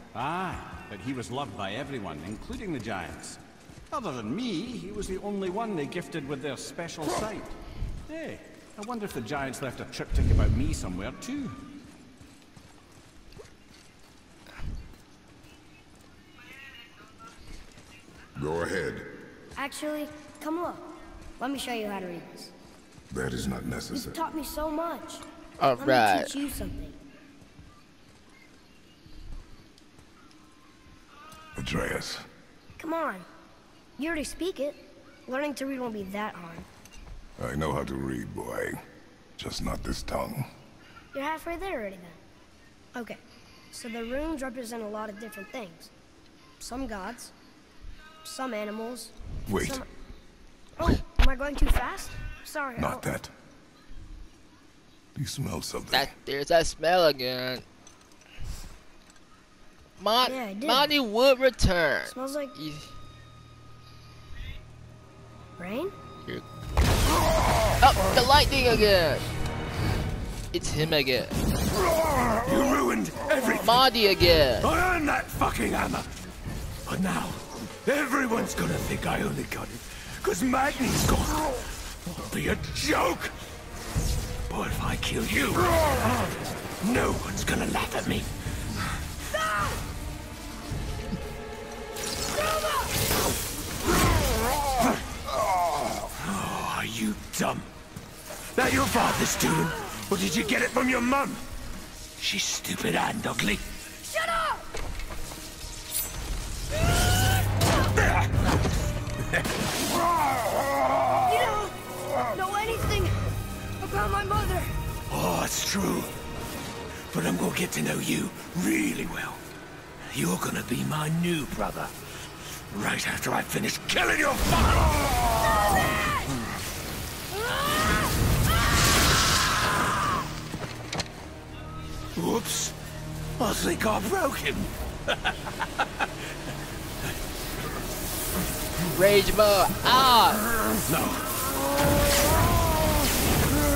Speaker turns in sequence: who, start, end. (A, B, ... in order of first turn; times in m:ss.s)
0:00.1-0:11.6 A
0:18.4-0:19.1 B
0:19.6-0:22.5 C
0:23.1-0:24.2 B
0:23.9-0:25.2 C
0:25.6-0:26.3 D
0:25.8-0:27.0 C
0:31.6-0:32.2 B
0:32.8-0:33.3 C
0:34.0-0:36.7 C
0:37.4-0:38.8 B
0:39.4-0:40.5 B
0:41.1-0:42.2 C
0:42.9-0:43.2 C
0:43.7-0:45.9 C
0:46.6-0:47.3 C
0:48.2-0:49.9 C
0:49.5-0:49.8 B
0:50.8-0:53.1 C
0:52.8-0:53.3 B
0:55.2-0:56.1 B
0:55.9-0:57.6 D
1:00.0-1:02.9 D
1:00.2-1:00.9 C
1:02.1-1:02.6 C
1:05.6-1:05.9 C
1:07.8-1:09.3 D
1:10.5-1:11.4 D
1:12.4-1:13.9 E
1:13.6-1:14.7 D
1:14.6-1:16.1 E
1:16.9-1:23.3 E
1:24.5-1:25.7 E
1:26.8-1:28.3 E
1:36.2-1:37.7 E
1:38.6-1:41.4 E
1:42.2-1:43.6 E
1:44.1-1:44.6 C
1:51.2-1:53.2 C
1:53.8-1:54.8 C
1:55.1-1:56.1 E
1:57.1-1:59.4 E
2:00.1-2:01.9 E
2:02.7-2:05.0 E
2:12.2-2:12.8 E
2:13.4-2:14.7 E
2:18.9-2:20.5 D
2:20.9-2:21.3 E